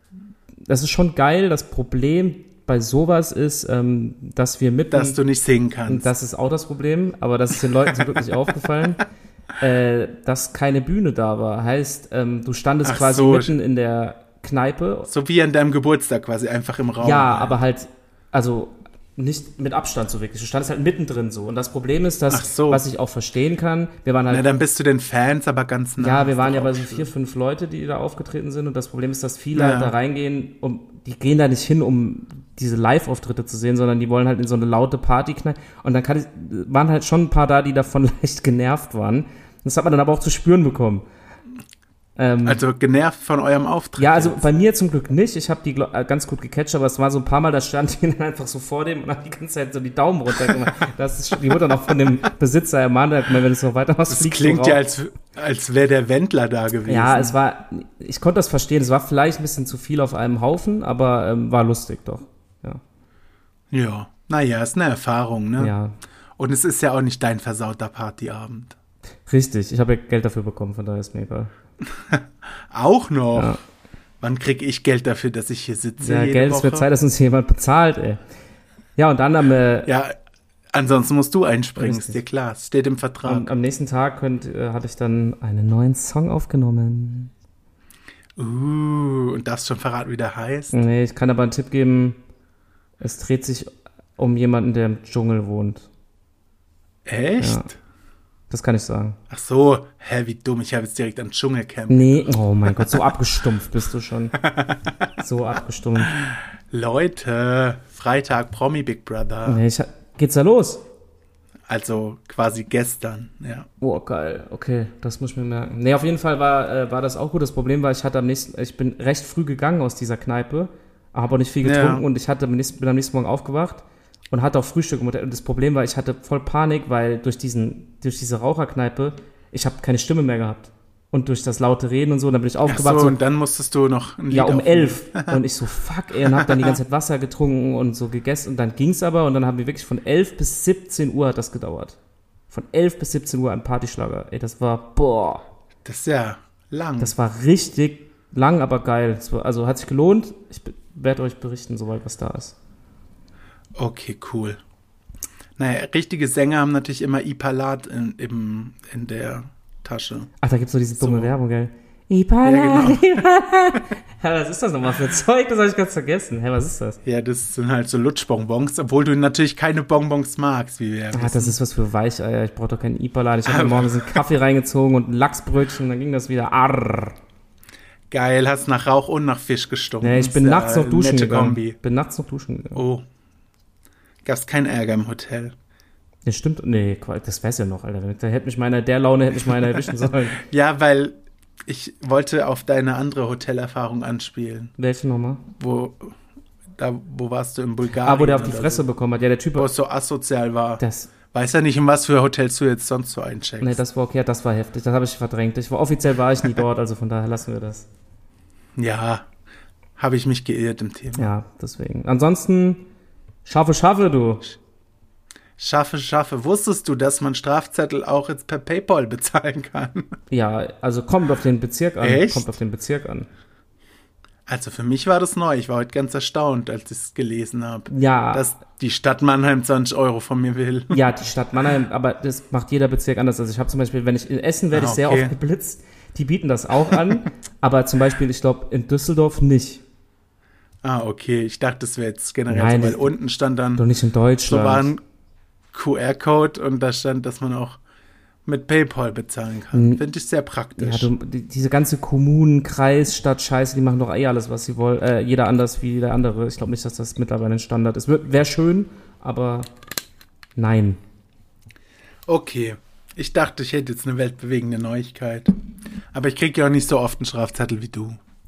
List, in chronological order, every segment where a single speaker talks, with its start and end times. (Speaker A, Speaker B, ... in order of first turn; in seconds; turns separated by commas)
Speaker A: 0.7-5.2, Speaker B: 4.9-6.1, Speaker A: 5.9-9.0, Speaker A: 9.6-15.1, Speaker B: 12.8-13.5, Speaker B: 15.1-17.6, Speaker A: 17.0-24.5, Speaker B: 22.3-22.8, Speaker B: 24.3-27.1, Speaker A: 26.0-41.0, Speaker B: 29.5-29.9, Speaker A: 42.2-42.6, Speaker B: 42.4-44.5, Speaker A: 44.0-54.8, Speaker B: 54.1-57.4, Speaker A: 56.9-62.8, Speaker B: 63.7-65.7, Speaker A: 65.6-66.0, Speaker B: 66.4-68.8, Speaker A: 69.3-71.5, Speaker B: 71.9-73.5, Speaker A: 73.3-73.6, Speaker B: 74.2-76.9, Speaker A: 76.0-78.2, Speaker A: 79.0-79.9, Speaker B: 79.8-80.1, Speaker B: 80.7-83.5, Speaker A: 81.8-82.2, Speaker A: 83.2-87.3, Speaker B: 88.4-90.8, Speaker A: 90.7-92.2, Speaker A: 93.0-95.9, Speaker B: 97.0-97.7, Speaker A: 97.4-97.7, Speaker A: 98.5-99.2, Speaker B: 99.3-103.0, Speaker A: 101.9-104.4, Speaker B: 104.4-104.9, Speaker A: 105.2-106.2, Speaker B: 106.0-109.6, Speaker A: 109.4-110.8, Speaker B: 111.7-113.7, Speaker A: 113.8-133.2, Speaker B: 121.6-122.0, Speaker B: 132.7-135.4, Speaker A: 134.3-142.0, Speaker B: 136.2-136.7, Speaker A: 142.5-145.4, Speaker B: 145.8-147.1, Speaker A: 147.0-152.5, Speaker B: 153.8-154.6, Speaker B: 155.6-160.3, Speaker A: 160.4-167.0, Speaker B: 161.0-161.3, Speaker B: 162.4-163.2, Speaker B: 167.0-171.6, Speaker A: 171.1-177.2, Speaker B: 173.4-174.2, Speaker B: 178.1-181.8, Speaker A: 180.0-182.8, Speaker B: 182.7-183.0, Speaker B: 184.2-185.5, Speaker A: 186.2-190.4, Speaker B: 190.3-194.7, Speaker A: 194.8-195.4, Speaker B: 195.6-196.2, Speaker B: 196.8-198.9, Speaker A: 198.0-199.7, Speaker B: 199.6-203.8, Speaker A: 200.8-201.1, Speaker A: 203.6-207.9, Speaker B: 208.8-209.3, Speaker B: 210.0-211.3, Speaker A: 211.2-212.8, Speaker A: 213.4-214.5, Speaker B: 215.6-220.1, Speaker A: 220.3-223.3, Speaker B: 222.0-222.5, Speaker B: 224.5-231.0, Speaker A: 227.9-228.5, Speaker A: 230.9-239.8, Speaker B: 234.7-235.3, Speaker B: 240.8-243.8, Speaker A: 242.5-243.1, Speaker A: 243.8-244.9, Speaker B: 244.5-245.0, Speaker B: 245.7-247.8, Speaker B: 248.4-251.1, Speaker A: 249.7-250.0, Speaker A: 250.8-259.7, Speaker A: 260.6-261.0, Speaker B: 262.2-265.5, Speaker B: 266.1-268.2